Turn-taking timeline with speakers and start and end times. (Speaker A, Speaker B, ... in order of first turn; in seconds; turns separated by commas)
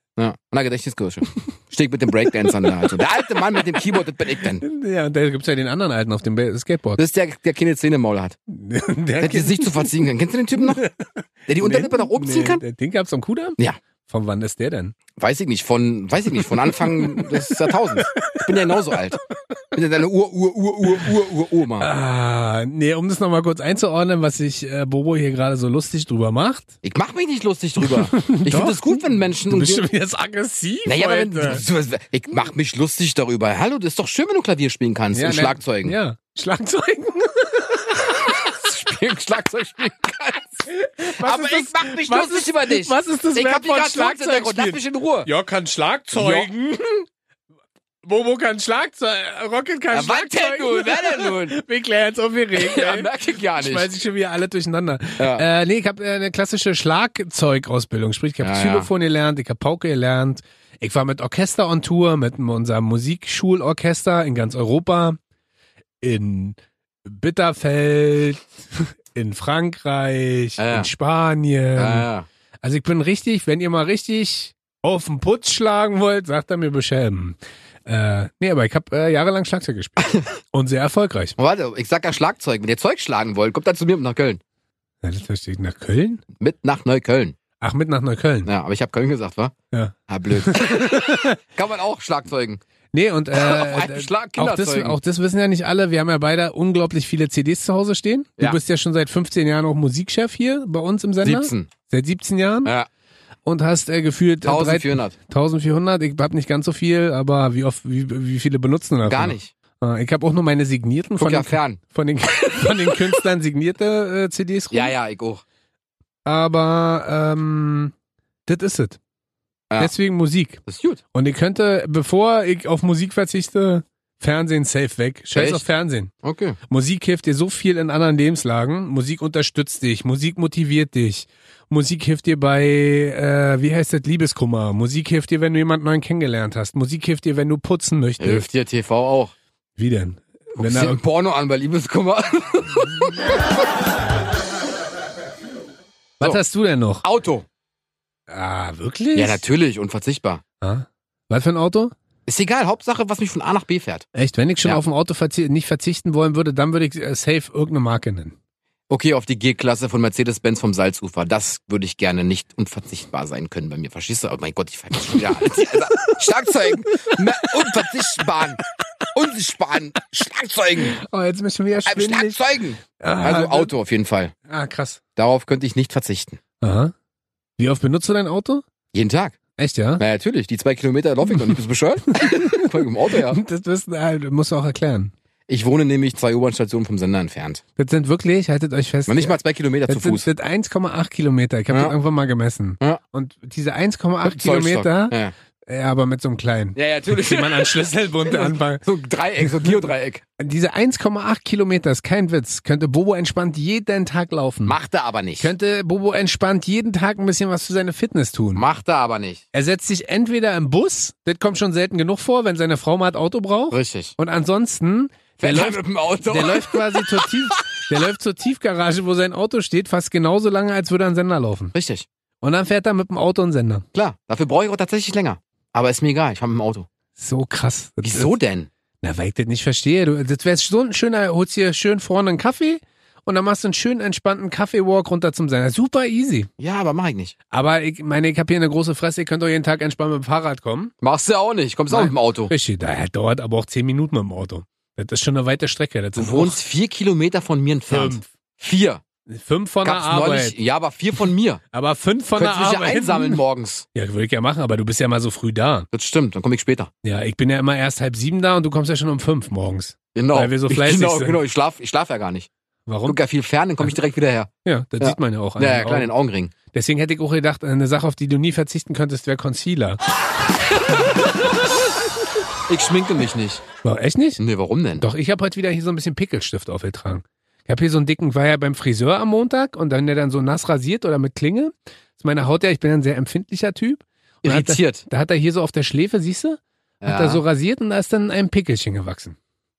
Speaker A: 0.2-4.6, Speaker B: 2.3-3.0, Speaker B: 4.4-7.0, Speaker A: 7.0-8.4, Speaker B: 8.5-9.9, Speaker A: 9.2-10.8, Speaker B: 10.6-14.9, Speaker A: 11.5-12.6, Speaker A: 15.2-19.2, Speaker B: 16.4-19.0, Speaker A: 19.7-21.9, Speaker B: 21.8-26.7, Speaker A: 26.8-29.9, Speaker B: 27.8-31.6, Speaker A: 30.8-35.9, Speaker B: 35.1-38.5, Speaker A: 38.2-45.3, Speaker B: 40.7-47.0, Speaker A: 46.1-46.5, Speaker B: 48.0-65.2, Speaker A: 49.9-51.5, Speaker A: 52.5-53.9, Speaker A: 55.2-55.4, Speaker A: 58.4-58.9, Speaker B: 66.0-72.1, Speaker A: 70.6-70.9, Speaker A: 71.8-72.3, Speaker B: 72.6-81.3, Speaker A: 81.4-84.4, Speaker B: 85.0-86.2, Speaker A: 86.4-87.3, Speaker B: 87.6-88.5, Speaker A: 88.4-89.5, Speaker B: 89.7-91.4, Speaker A: 90.1-92.6, Speaker B: 92.9-102.7, Speaker A: 93.3-95.0, Speaker A: 101.2-101.7, Speaker B: 103.5-114.9, Speaker A: 104.4-105.2, Speaker A: 109.0-109.5, Speaker A: 111.2-111.8, Speaker A: 112.4-113.1, Speaker A: 114.7-115.4, Speaker B: 116.2-117.9, Speaker B: 118.5-119.0, Speaker B: 119.8-120.6, Speaker A: 120.7-121.0, Speaker B: 121.1-126.1, Speaker A: 125.3-125.6, Speaker A: 126.2-126.6, Speaker B: 126.7-138.4, Speaker A: 138.2-139.3, Speaker B: 139.8-141.0, Speaker A: 140.5-143.3, Speaker B: 146.2-147.0, Speaker A: 147.0-147.4, Speaker B: 148.3-149.4, Speaker A: 149.1-150.4, Speaker B: 150.6-151.9, Speaker A: 152.3-154.1, Speaker B: 154.1-158.3, Speaker A: 158.9-171.0, Speaker B: 165.1-165.7, Speaker B: 167.2-167.7, Speaker B: 170.8-173.7, Speaker A: 171.8-174.3, Speaker B: 174.5-175.0, Speaker A: 175.2-176.4, Speaker B: 176.6-176.9, Speaker B: 177.6-178.6, Speaker A: 178.9-179.4, Speaker B: 179.6-180.0, Speaker A: 180.0-183.4, Speaker B: 181.2-181.5, Speaker B: 182.1-185.1, Speaker A: 185.5-187.6, Speaker B: 187.8-198.8, Speaker A: 189.1-190.2, Speaker A: 191.7-191.9, Speaker A: 194.2-195.3, Speaker A: 196.7-200.2, Speaker B: 199.4-199.8, Speaker B: 200.4-204.8, Speaker A: 204.7-205.5, Speaker B: 205.4-208.6, Speaker A: 208.5-209.4, Speaker B: 209.5-221.7, Speaker A: 213.7-214.1, Speaker A: 215.4-217.6, Speaker A: 221.7-222.1, Speaker B: 222.4-223.8, Speaker A: 223.9-226.9, Speaker B: 227.2-228.3, Speaker A: 228.0-228.7, Speaker B: 229.0-236.5, Speaker A: 236.6-237.3, Speaker B: 237.5-240.9, Speaker A: 241.0-242.5, Speaker B: 241.9-246.6, Speaker A: 246.2-249.0, Speaker B: 247.9-248.3, Speaker B: 249.3-250.5, Speaker A: 249.8-251.6, Speaker B: 251.7-253.4, Speaker A: 252.3-253.8, Speaker B: 253.9-255.9, Speaker A: 255.9-256.9, Speaker B: 257.0-261.4, Speaker A: 260.1-262.5, Speaker B: 262.9-263.2, Speaker A: 263.1-266.5, Speaker B: 264.6-266.1, Speaker B: 266.7-270.0, Speaker A: 272.7-273.6, Speaker B: 273.8-274.4, Speaker A: 274.4-275.1, Speaker B: 275.0-289.4, Speaker A: 284.4-285.0, Speaker A: 287.0-287.4